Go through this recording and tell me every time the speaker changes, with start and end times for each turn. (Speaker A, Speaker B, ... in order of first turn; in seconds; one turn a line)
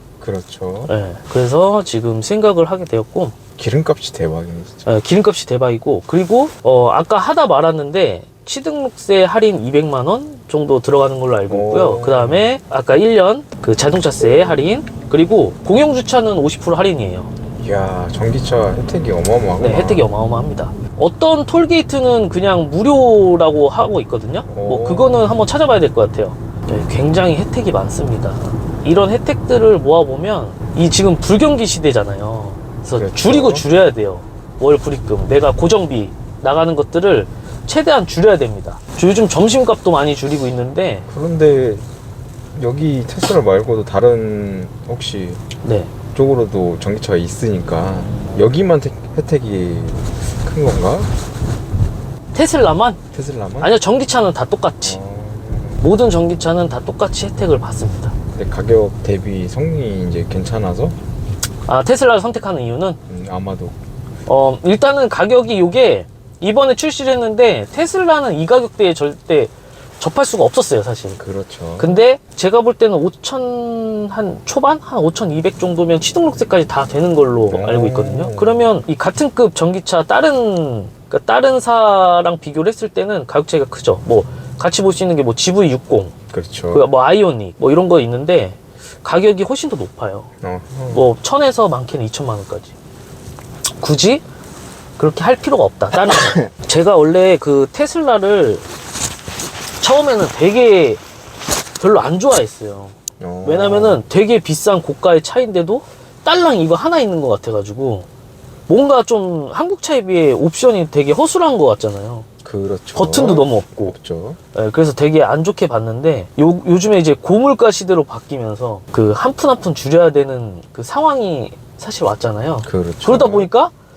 Speaker A: 0.2-0.9
Speaker B: 0.8-3.3
Speaker A: 3.6-4.9
Speaker B: 4.8-17.3
Speaker A: 11.5-12.5
Speaker A: 17.6-20.1
Speaker B: 19.6-41.0
Speaker A: 24.4-25.4
Speaker A: 32.9-33.6
Speaker A: 41.1-41.8
Speaker A: 42.5-45.4
Speaker B: 45.6-45.9
Speaker A: 46.1-51.1
Speaker B: 52.3-53.0
Speaker A: 53.1-53.7
Speaker B: 53.6-55.0
Speaker A: 54.8-55.8
Speaker B: 55.8-58.1
Speaker A: 58.3-61.0
Speaker B: 61.6-63.0
Speaker A: 63.1-63.8
Speaker B: 64.3-71.2
Speaker A: 71.2-72.0
Speaker B: 71.8-86.1
Speaker A: 77.5-78.7
Speaker A: 86.3-86.9
Speaker B: 86.7-90.3
Speaker A: 90.4-91.0
Speaker B: 90.9-92.7
Speaker B: 93.8-94.2
Speaker B: 95.0-98.6
Speaker A: 96.0-96.5
Speaker B: 99.8-101.0
Speaker B: 101.8-108.1
Speaker A: 103.2-104.0
Speaker B: 108.7-112.3
Speaker A: 112.4-114.4
Speaker B: 113.0-113.9
Speaker B: 114.5-123.7
Speaker A: 122.6-123.5